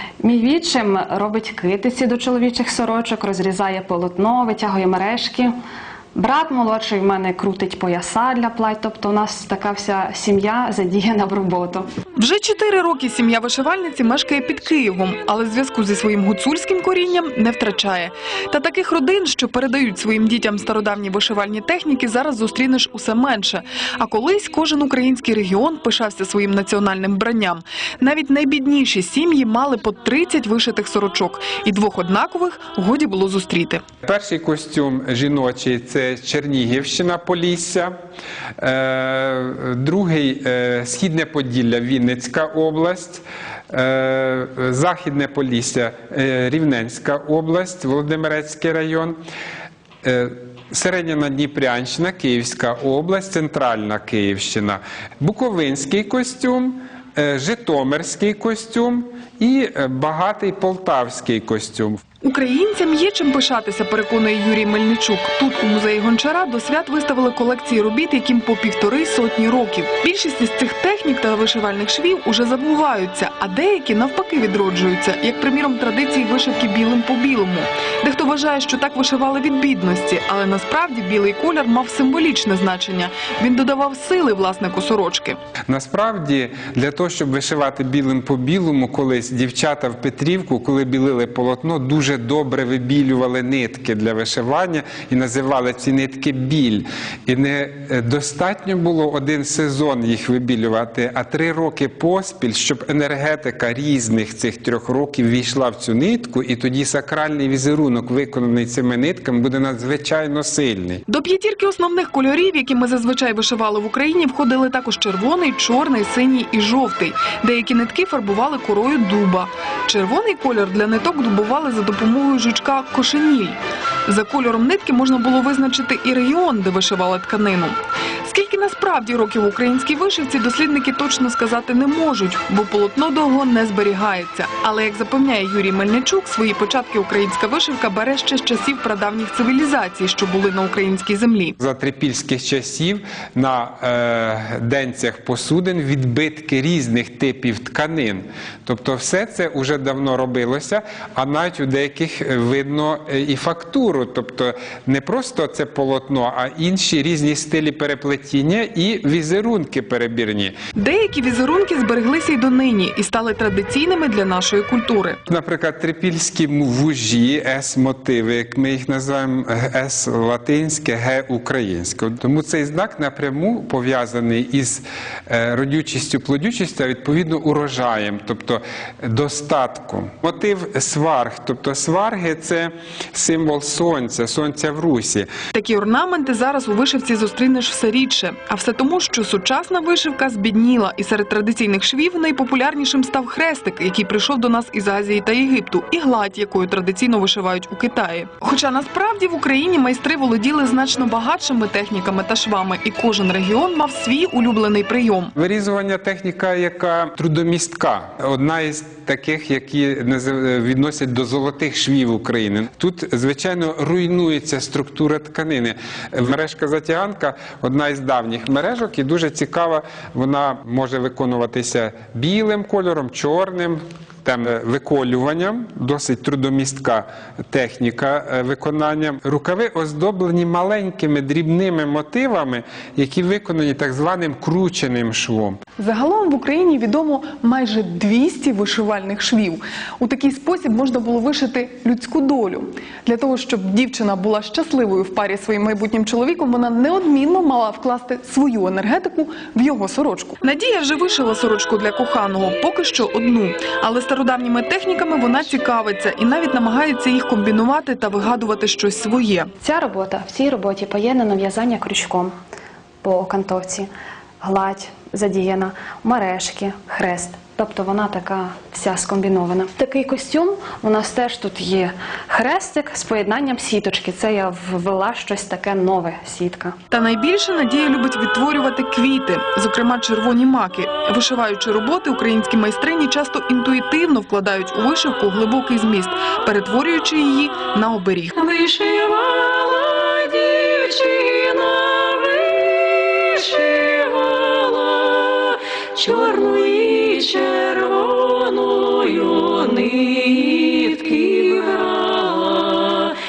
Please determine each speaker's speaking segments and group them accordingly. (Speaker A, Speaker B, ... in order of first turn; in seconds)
Speaker A: 0.2-5.5, 6.2-11.9, 259.6-262.3, 263.0-263.9, 264.4-276.8
Speaker B: 12.2-33.8, 62.2-85.4, 111.1-141.6, 160.8-165.2, 185.5-205.3, 235.8-259.5, 276.9-288.4
Speaker C: 34.0-37.9, 38.6-49.2, 50.0-62.0, 85.7-111.0, 141.6-160.6, 165.3-185.3, 205.4-235.6
Speaker D: 288.4-303.1